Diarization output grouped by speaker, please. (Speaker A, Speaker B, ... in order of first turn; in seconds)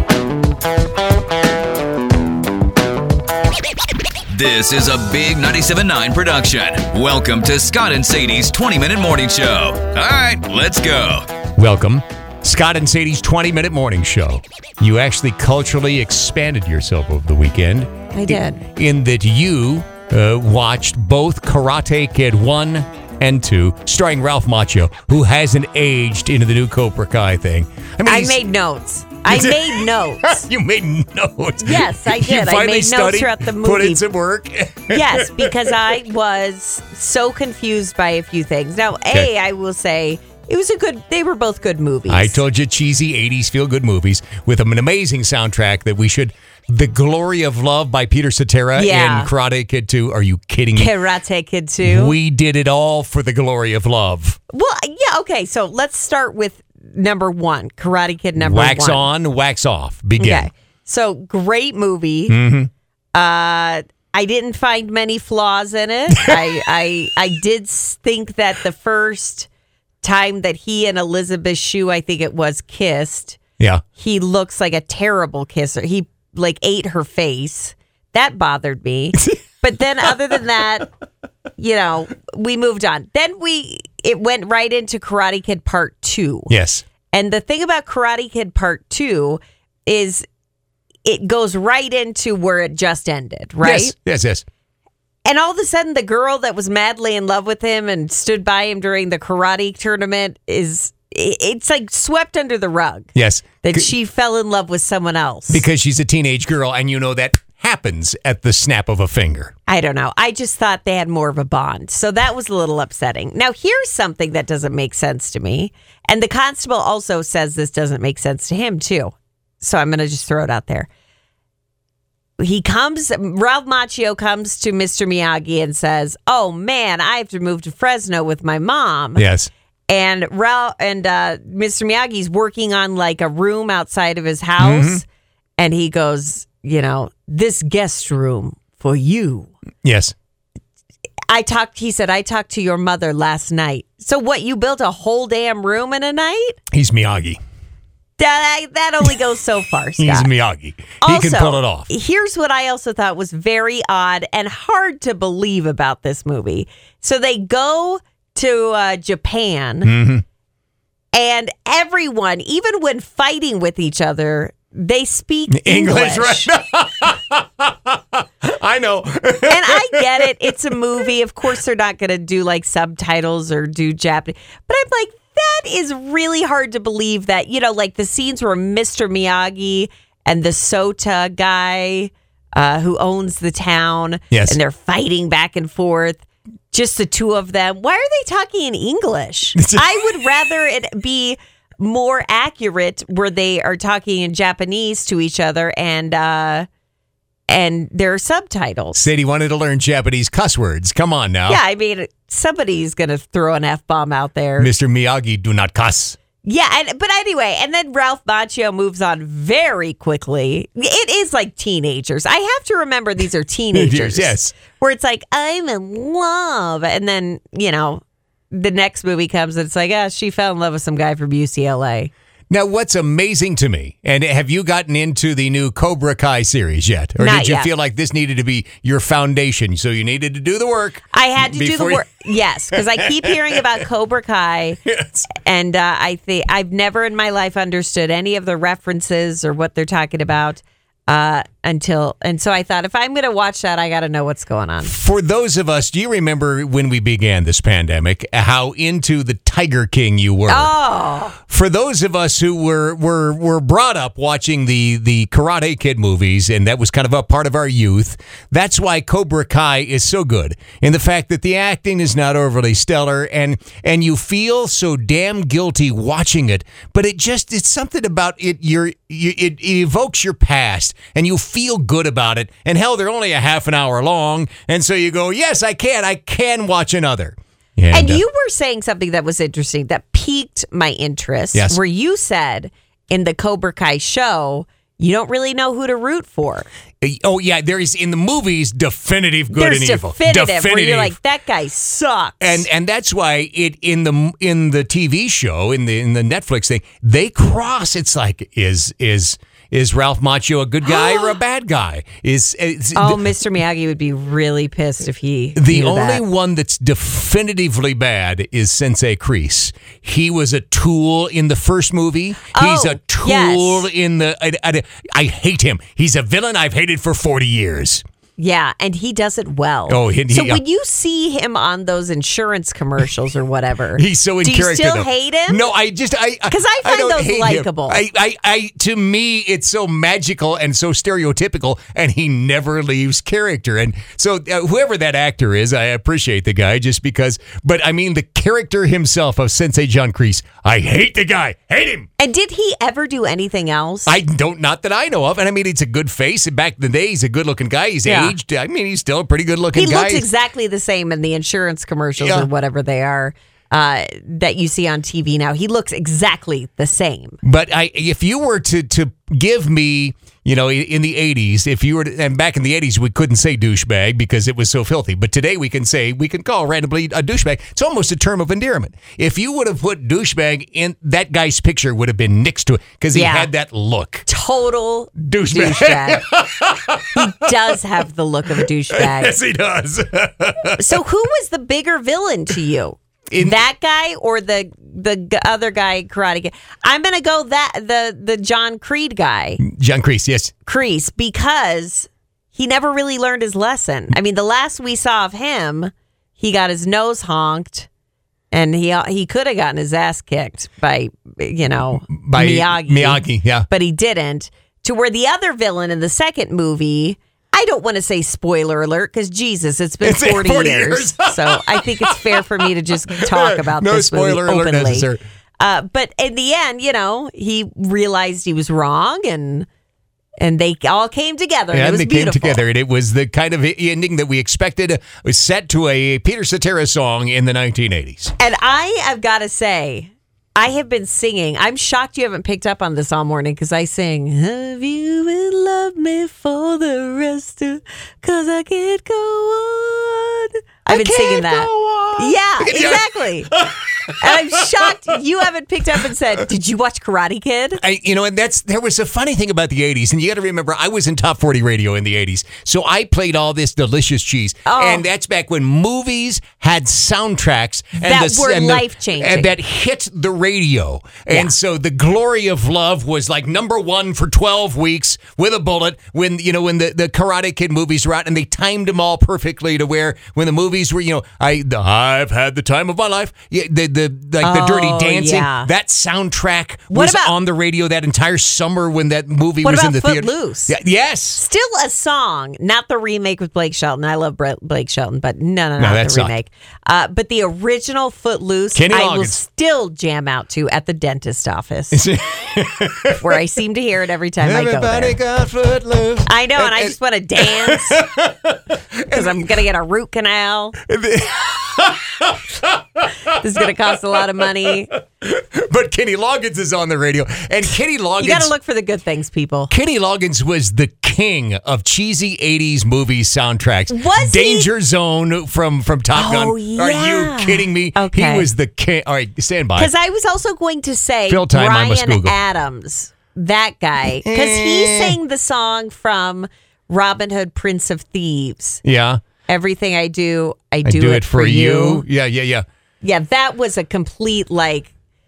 Speaker A: 4.3-11.2
Speaker B: 11.6-28.4, 29.3-35.8, 42.1-50.9, 51.8-54.4, 58.4-60.5, 62.3-62.7, 86.5-86.8, 93.6-94.4, 103.1-103.9, 105.5-109.5, 129.2-129.5, 134.6-135.0, 139.8-140.1, 146.7-147.4, 150.0-151.9, 159.8-160.2, 165.5-170.3, 184.3-184.6, 189.6-189.9, 198.9-201.6, 204.6-206.2, 213.7-214.5, 222.5-233.6, 234.8-235.3, 244.8-250.7, 251.4-278.2, 281.5-281.8, 287.0-291.1, 292.4-303.3, 305.6-318.0, 319.9-320.6, 323.9-342.1, 344.1-350.2, 352.2-352.5, 357.4-374.2, 375.2-377.8, 378.6-381.0, 383.3-383.6, 389.6-390.5, 402.1-403.7, 410.0-415.2, 421.7-428.3, 440.9-444.9, 447.8-481.4, 485.8-486.3, 488.7-489.4, 491.9-493.4, 494.4-499.5, 500.8-503.3, 504.6-508.5, 509.7-519.9, 521.3-522.4, 524.2-525.2, 528.8-529.2, 530.8-532.6
Speaker C: 18.1-18.6, 28.0-30.4, 31.6-34.0, 34.9-42.4, 48.7-49.3, 50.7-52.2, 54.5-59.1, 60.2-62.4, 63.1-69.5, 70.0-73.4, 74.0-80.9, 81.6-86.5, 87.1-90.2, 91.0-93.9, 95.2-103.1, 103.6-105.7, 109.7-120.9, 122.4-129.2, 129.9-135.0, 135.6-139.5, 141.3-146.6, 148.2-150.3, 151.0-159.9, 161.1-166.5, 169.4-196.7, 197.5-199.0, 201.5-204.7, 206.4-222.1, 227.2-227.7, 231.1-234.8, 235.3-244.9, 250.5-251.4, 277.9-286.7, 289.5-292.6, 300.8-301.4, 302.9-306.2, 312.5-313.9, 318.4-325.7, 326.5-328.0, 342.2-344.2, 348.0-348.4, 349.7-357.4, 373.1-373.5, 374.2-376.2, 377.1-379.4, 380.8-389.6, 390.6-397.9, 398.5-419.7, 420.4-422.6, 428.4-443.5, 444.2-447.8, 454.6-455.0, 458.0-459.5, 461.3-461.5, 474.4-475.7, 476.9-477.4, 479.6-480.8, 481.4-492.1, 493.1-495.2, 496.2-498.1, 499.1-500.8, 503.3-504.9, 508.2-509.7, 513.9-514.7, 516.1-518.5, 519.8-528.8, 529.5-532.0, 533.0-534.9